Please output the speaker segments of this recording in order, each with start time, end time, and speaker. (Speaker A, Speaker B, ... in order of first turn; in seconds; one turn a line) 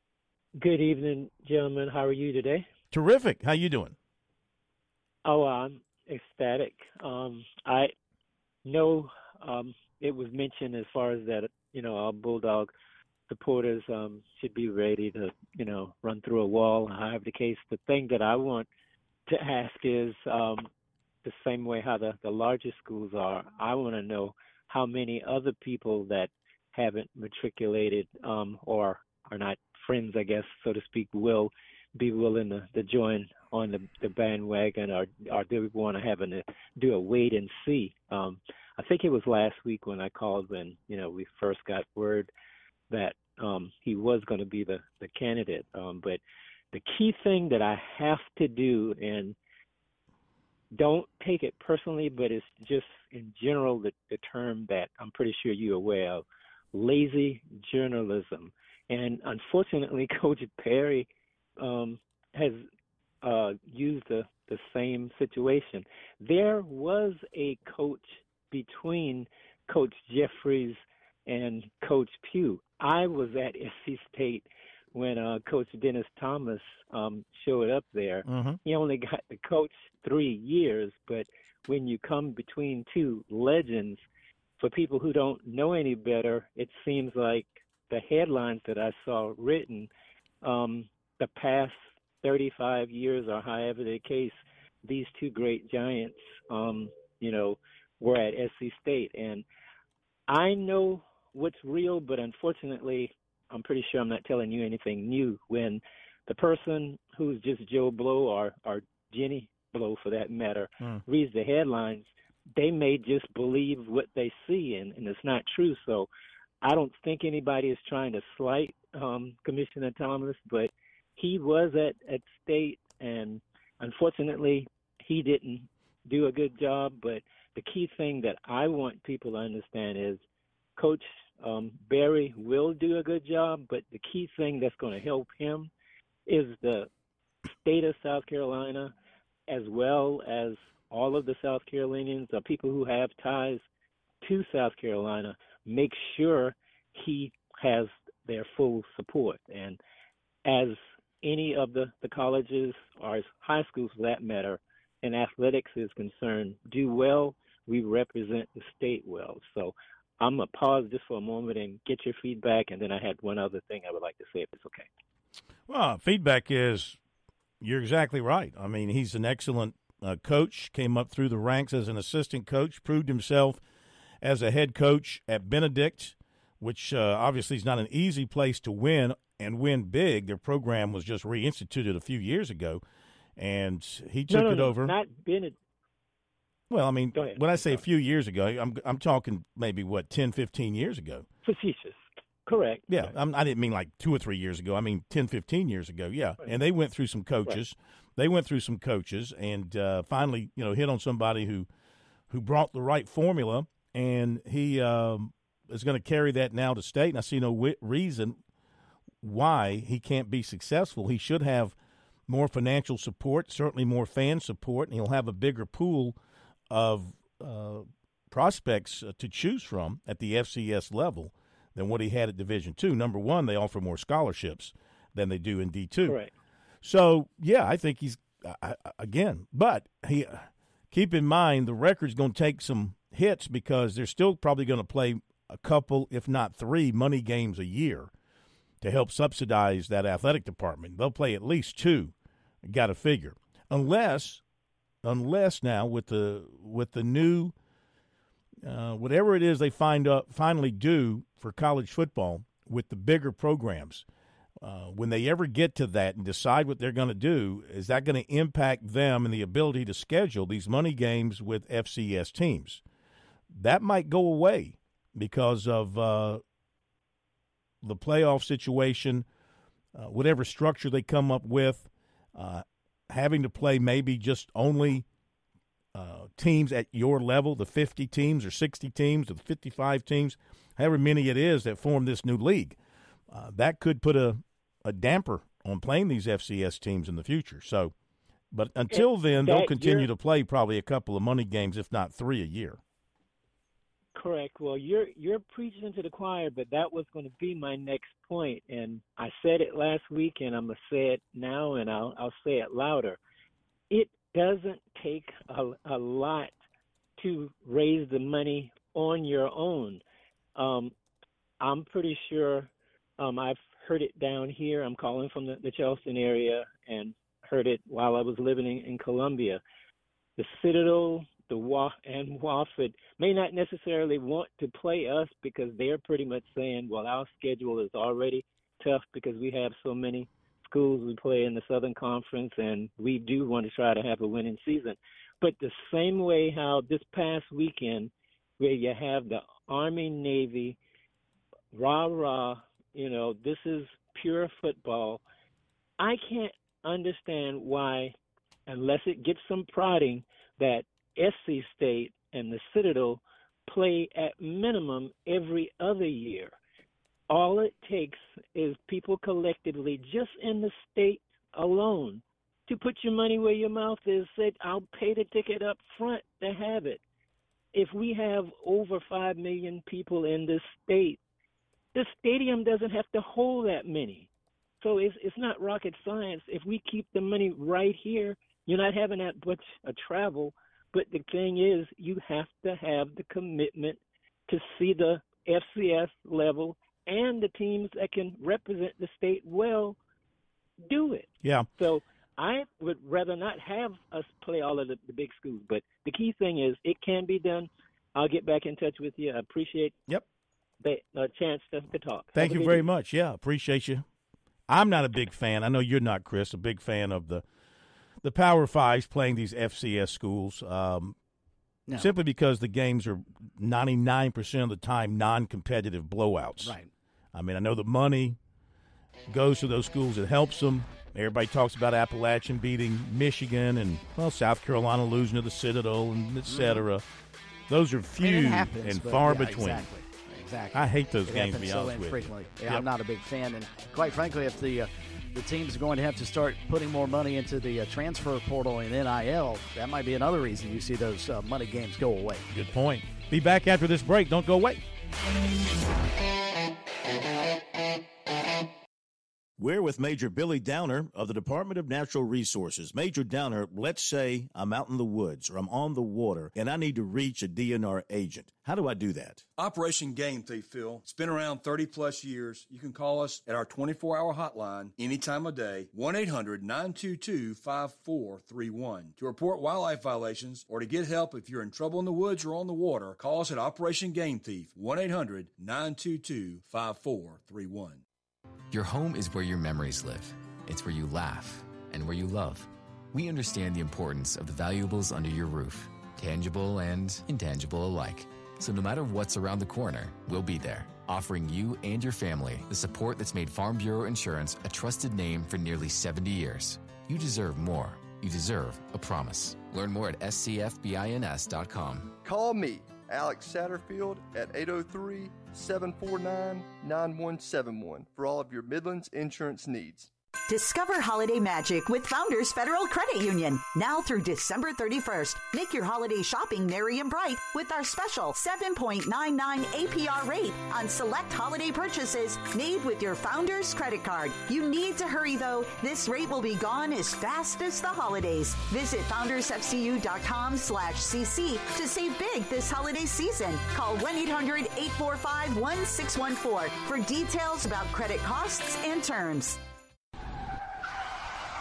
Speaker A: 0.6-2.6
Speaker B: 2.9-4.0
Speaker A: 5.2-7.9
Speaker A: 8.6-12.7
Speaker A: 13.3-18.7
Speaker A: 19.3-20.7
Speaker A: 21.2-42.3
Speaker A: 42.9-46.2
Speaker A: 46.7-49.3
Speaker A: 50.8-61.1
Speaker A: 61.6-62.6
Speaker A: 63.2-84.0
Speaker B: 78.2-78.6
Speaker A: 84.6-89.9
Speaker A: 90.4-99.4
Speaker A: 100.3-116.1
Speaker A: 116.6-130.2
Speaker A: 130.8-135.7
Speaker A: 136.3-136.9
Speaker A: 137.5-138.9
Speaker A: 139.5-143.6
Speaker A: 144.2-149.8
Speaker A: 150.4-164.9
Speaker B: 165.7-167.0
Speaker B: 167.6-173.6
Speaker B: 174.2-182.8
Speaker B: 183.4-184.9
Speaker A: 184.3-185.6
Speaker B: 186.7-191.2
Speaker A: 187.1-187.8
Speaker A: 191.4-192.9
Speaker B: 192.9-201.7
Speaker B: 202.3-208.4
Speaker B: 209.2-211.7
Speaker B: 212.3-216.2
Speaker B: 216.7-226.2
Speaker A: 226.1-226.3
Speaker B: 226.8-238.1
Speaker B: 238.8-242.1
Speaker B: 242.6-244.4
Speaker B: 245.0-247.5
Speaker B: 248.6-254.0
Speaker B: 254.6-262.8
Speaker B: 263.5-266.4
Speaker B: 267.8-269.2
Speaker B: 269.9-275.0
Speaker B: 275.9-282.8
Speaker B: 283.3-287.9
Speaker B: 288.5-292.8
Speaker A: 288.9-290.1
Speaker A: 294.1-303.2
Speaker A: 303.9-306.5
Speaker A: 307.2-310.0
Speaker A: 310.6-310.9
Speaker A: 311.6-319.6
Speaker A: 320.4-340.8
Speaker A: 341.7-345.2
Speaker A: 346.0-348.1
Speaker A: 348.7-356.5
Speaker A: 357.3-367.0
Speaker A: 367.7-371.2
Speaker A: 371.9-374.3
Speaker A: 374.8-390.0
Speaker A: 390.8-399.9
Speaker B: 391.4-391.7
Speaker A: 400.8-402.9
Speaker B: 402.3-404.0
Speaker B: 404.7-407.4
Speaker B: 408.2-411.1
Speaker B: 411.9-416.8
Speaker C: 416.6-416.9
Speaker B: 417.3-418.4
Speaker B: 419.3-427.0
Speaker C: 426.5-426.8
Speaker B: 427.7-429.9
Speaker C: 428.2-442.5
Speaker B: 430.7-432.8
Speaker B: 442.5-444.8
Speaker B: 449.6-459.4
Speaker D: 459.6-478.0
Speaker E: 478.7-502.1
Speaker F: 502.2-510.1
Speaker G: 510.5-539.6